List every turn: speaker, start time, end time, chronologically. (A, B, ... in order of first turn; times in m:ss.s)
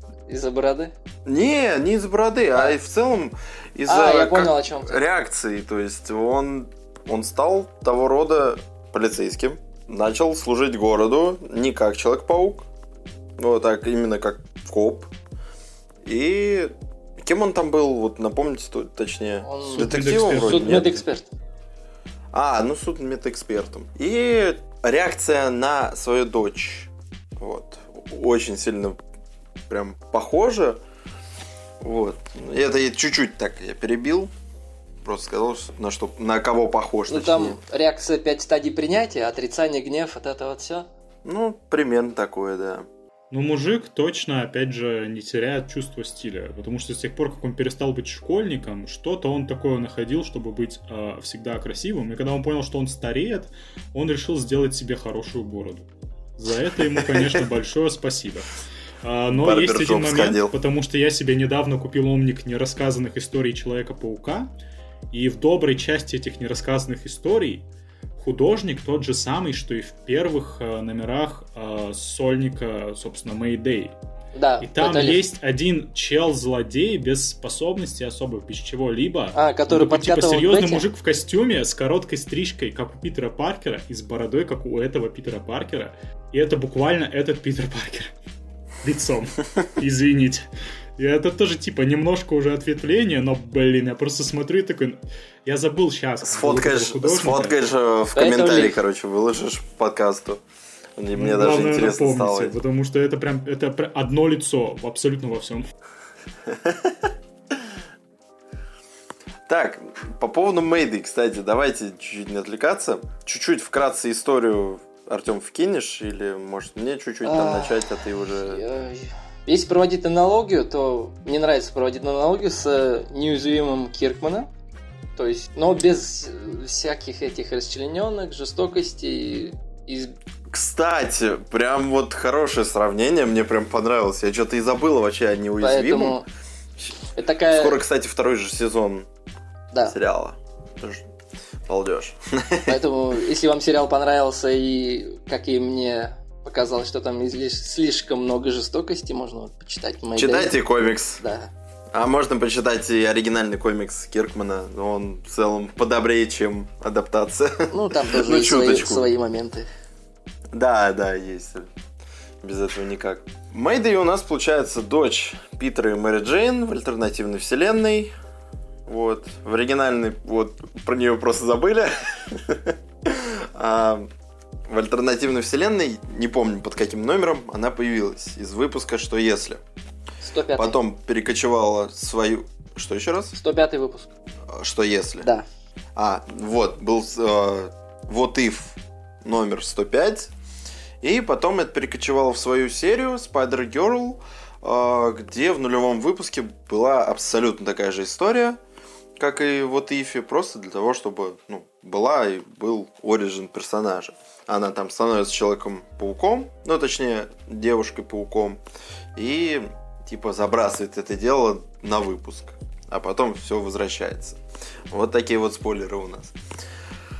0:00.3-0:00.9 A
0:01.2-0:12.7 B
0:03.9-0:05.0 A
0:13.4-0:15.1 B
0:16.0-0:20.9 B
0:19.4-0:21.3 A
0:19.7-0:21.0 C
0:22.3-0:29.0 B
0:29.7-0:30.8 B
0:31.8-0:34.3 B
0:35.0-0:37.6 B
0:37.1-0:40.9 A
0:41.2-0:42.9 B
0:43.3-0:58.5 C
0:57.1-0:57.4 B
0:59.0-1:04.5 C
0:59.3-1:00.5 B
1:05.1-1:07.6 C
1:08.2-1:13.9 C
1:14.3-1:15.2 A
1:14.6-1:28.1 C
1:19.3-1:20.8 A
1:28.8-1:30.4 C
1:31.0-1:37.6 C
1:36.2-1:40.4 B
1:38.1-1:38.8 A
1:41.0-1:42.6 B
1:41.1-1:45.6 C
1:46.4-1:47.1 B
1:49.5-1:58.6 B
1:57.2-2:04.5 A
2:05.2-2:10.1 A
2:10.5-2:16.2 B
2:15.6-2:16.2 A
2:17.2-2:17.8 A
2:17.5-2:19.1 B
2:19.9-2:21.0 B
2:21.7-2:22.8 B
2:22.6-2:31.5 A
2:30.1-2:31.2 B
2:31.9-2:39.1 B
2:37.7-2:39.7 A
2:40.5-2:41.7 B
2:42.4-2:48.1 B
2:48.9-2:54.1 B
2:54.7-2:59.6 B
3:00.2-3:00.8 A
3:00.5-3:03.3 B
3:03.3-3:04.1 A
3:04.5-3:05.3 B
3:06.0-3:10.3 B
3:11.0-3:18.6 B
3:19.2-3:28.6 B
3:29.2-3:34.4 B
3:34.9-3:36.3 B